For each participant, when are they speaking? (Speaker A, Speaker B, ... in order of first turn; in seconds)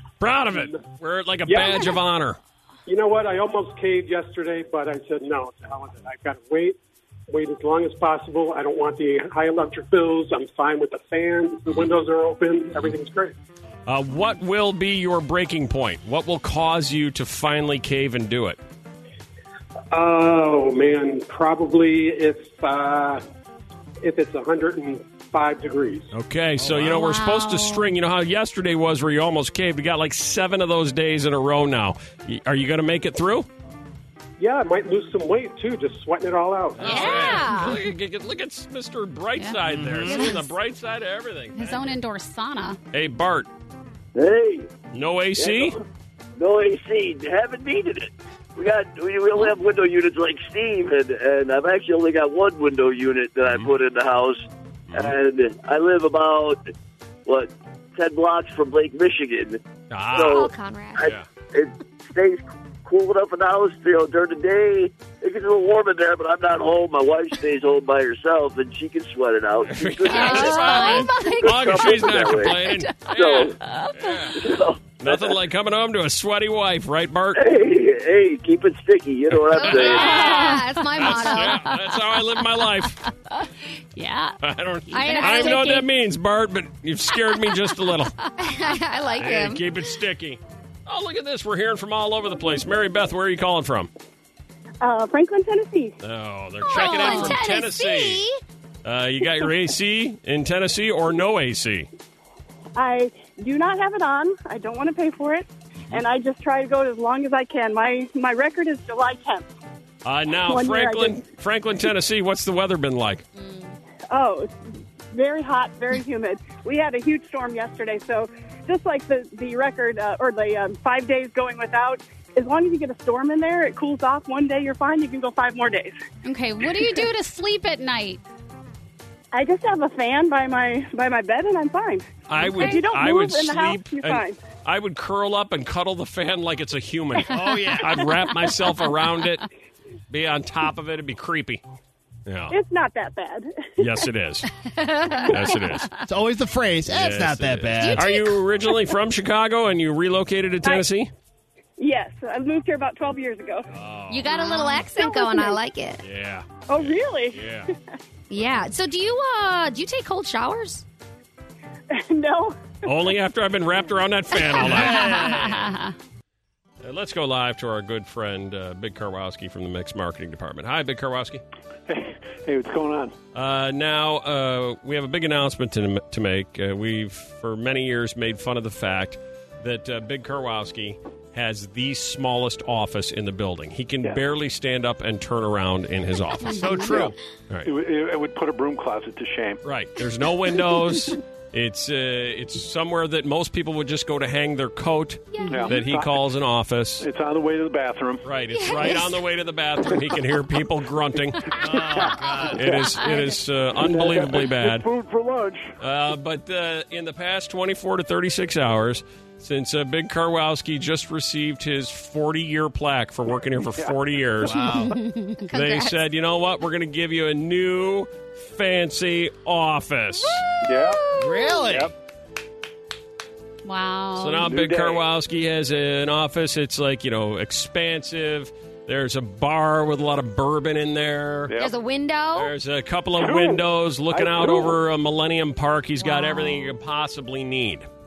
Speaker A: 0.2-2.4, 13.9-18.6, 26.1-33.5, 36.8-41.8, 42.9-43.5, 44.9-45.8, 53.5-53.7, 54.9-55.1, 59.9-61.3, 69.6-74.4, 75.0-77.4, 79.3-83.0, 84.4-88.1, 89.2-93.9, 96.0-98.2, 98.8-101.9, 110.0-113.2, 132.3-139.4, 140.1-141.6, 142.3-142.6, 143.8-144.5, 145.3-145.9, 146.9-151.1, 153.7-154.3, 156.0-157.7, 162.8-165.7, 166.8-171.4, 173.3-187.7, 189.6-197.1, 198.2-201.8, 202.5-204.9, 205.8-214.6, 215.5-220.4, 224.1-231.5, 232.3-237.9
Speaker B: 0.5-0.8, 1.5-1.9, 2.9-6.8, 7.3-13.3, 19.9-23.2, 24.0-26.1, 34.4-37.2
Speaker C: 26.6-27.0, 39.6-40.3, 137.3-138.1, 146.0-148.1, 164.7-165.5, 186.5-187.1, 201.6-202.7, 214.4-215.0, 221.1-221.9
Speaker D: 26.8-27.9, 36.9-37.7, 39.4-40.3, 41.5-42.8, 70.1-74.2, 79.8-81.8, 83.1-84.4, 84.9-85.8, 126.2-128.2, 144.8-145.3, 164.6-165.9, 186.4-186.9, 214.7-215.4, 223.6-224.5
Speaker E: 36.8-37.8, 60.1-61.1, 70.2-71.4, 79.5-81.7, 84.9-85.9, 88.4-89.6, 96.6-98.4, 113.3-113.8, 147.8-148.4, 154.1-156.0, 158.3-160.8, 195.3-195.8, 198.5-199.2, 215.4-216.0, 220.2-221.7, 231.6-232.5, 236.0-236.7
Speaker F: 44.1-44.7, 45.4-45.8, 46.4-56.7, 57.2-59.6, 60.1-73.6, 74.3-75.3, 77.3-80.2
Speaker G: 94.8-96.0, 102.8-109.5, 110.4-111.2, 114.1-114.5, 115.1-125.9, 129.3-134.4, 142.5-143.9, 151.8-153.7, 154.3-155.6, 156.7-157.4, 161.9-162.9
Speaker H: 171.9-173.1, 186.8-187.1, 187.6-189.6, 195.5-196.2, 197.0-198.2, 202.6-203.0, 203.8-205.7, 220.6-221.0, 224.5-225.0, 231.5-231.7, 233.2-234.8